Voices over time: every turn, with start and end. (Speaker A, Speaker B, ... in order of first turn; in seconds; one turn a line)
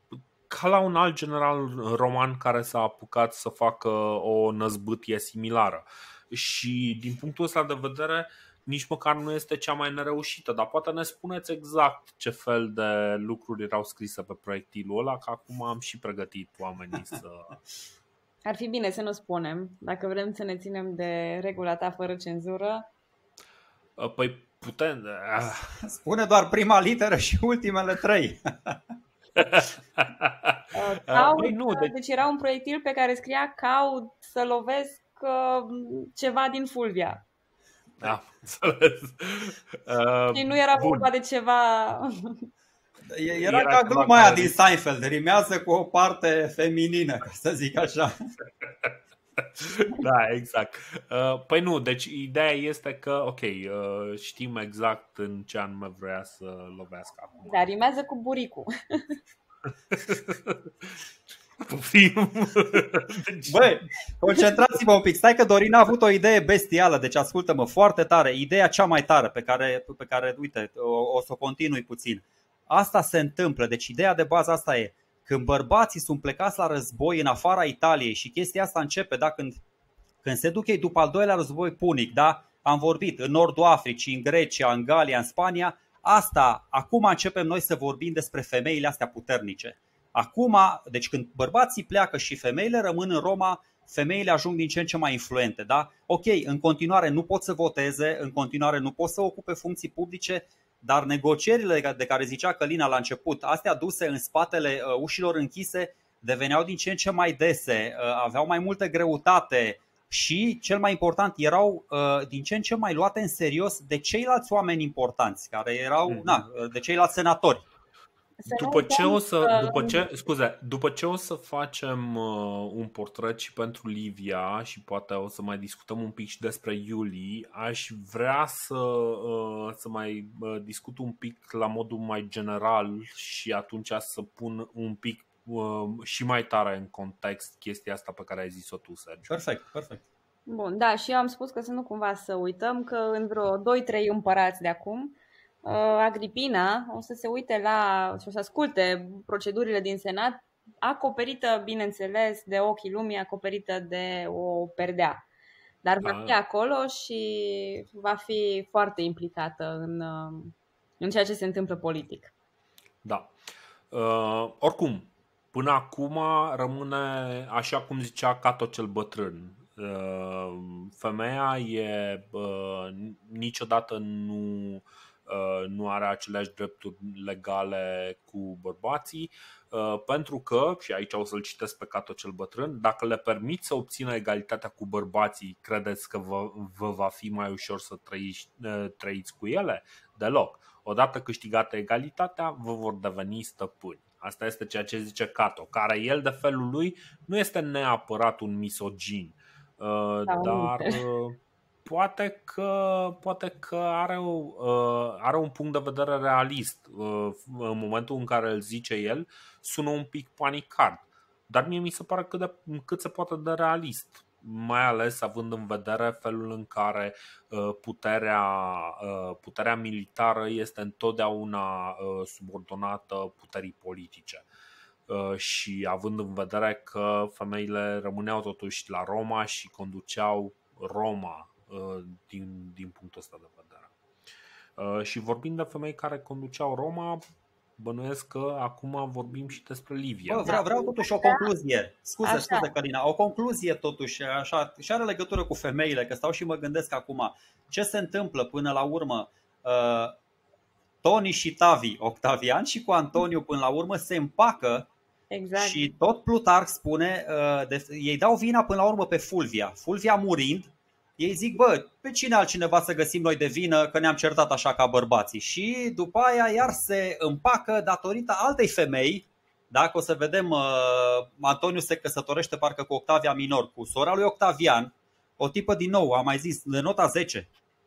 Speaker A: 0.5-17.6
Speaker B: 18.4-22.9
Speaker A: 24.0-25.8
Speaker C: 25.8-28.8
Speaker A: 29.4-31.9
Speaker B: 30.7-37.2
Speaker A: 38.0-41.1
Speaker B: 40.3-42.5
Speaker C: 43.1-48.2
Speaker A: 43.4-44.6
Speaker A: 48.6-57.6
Speaker B: 57.5-59.2
Speaker A: 59.9-60.9
Speaker A: 61.6-63.8
Speaker C: 63.5-79.6
Speaker C: 80.2-117.7
Speaker A: 116.1-116.4
Speaker B: 118.4-120.1
Speaker A: 118.5-139.4
Speaker C: 139.3-140.1
Speaker B: 140.5-155.2
Speaker B: 155.8-162.3
Speaker A: 156.0-156.3
Speaker A: 163.0-163.3
Speaker A: 163.9-224.4
Speaker B: 200.3-201.0
Speaker A: 225.1-233.9
Speaker A: 234.8-237.2
Speaker A: 237.8-240.5
Speaker C: 240.3-250.2
Speaker B: 240.4-241.5
Speaker B: 242.2-242.7
Speaker C: 251.0-254.9
Speaker B: 255.3-255.8
Speaker C: 255.6-277.5